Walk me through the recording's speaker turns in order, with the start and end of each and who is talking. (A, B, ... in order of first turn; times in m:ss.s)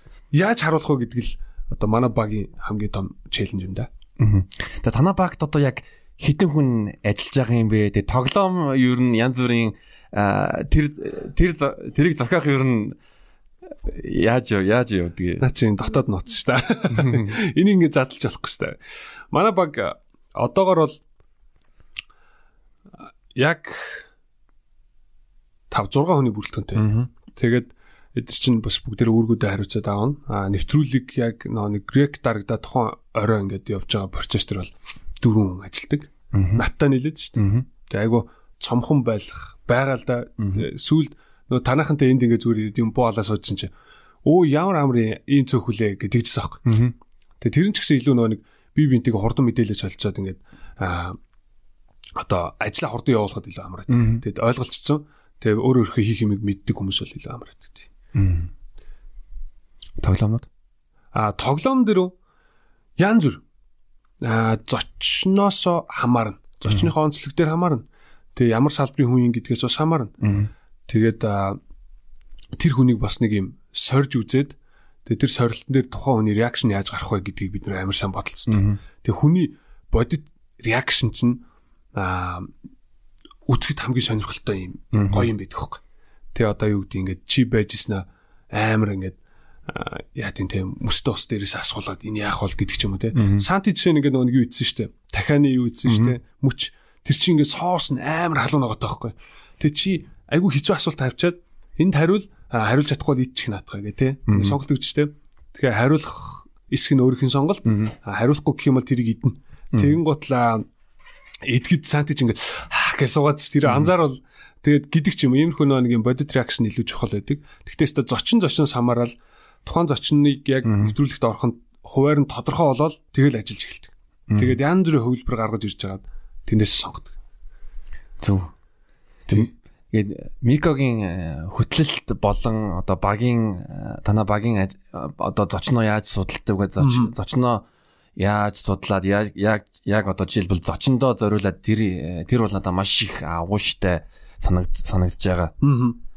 0:00.3-0:03.9 A
0:04.2-0:13.0 B
0:13.8-0:15.4 B
0:15.4-0:18.8 A
0:19.3-0:21.0 A
0:23.3-0:24.0 A
0:25.7-0:43.7 A
0:26.8-0:27.1 B
0:36.3-0:36.6 B
0:37.4-0:37.7 B
0:44.2-0:46.8 A
0:46.7-0:46.9 B
0:47.4-0:51.2 A
0:52.2-0:57.9 A
0:53.9-0:54.2 B
0:58.1-0:58.5 B
1:00.0-1:00.5 B
1:01.1-1:02.1 A
1:03.0-1:03.4 A
1:04.2-1:07.8 A
1:08.4-1:10.2 A
1:10.2-1:10.5 B
1:10.9-1:11.6 A
1:12.6-1:21.4 A
1:18.5-1:18.8 B
1:21.9-1:22.5 A
1:23.4-1:25.8 A
1:24.9-1:25.3 B
1:26.3-1:29.2 A
1:29.7-1:50.6 A
1:33.1-1:33.4 B
1:35.8-1:36.2 B
1:44.3-1:44.6 B
1:47.7-1:47.9 B
1:51.4-1:59.1 A
1:53.7-1:53.9 B
1:59.6-2:07.1 A
2:00.7-2:00.9 B
2:04.3-2:04.6 B
2:08.2-2:08.5 B
2:09.3-2:17.7 B
2:16.8-2:17.1 A
2:18.2-2:25.6 B
2:25.6-2:26.0 A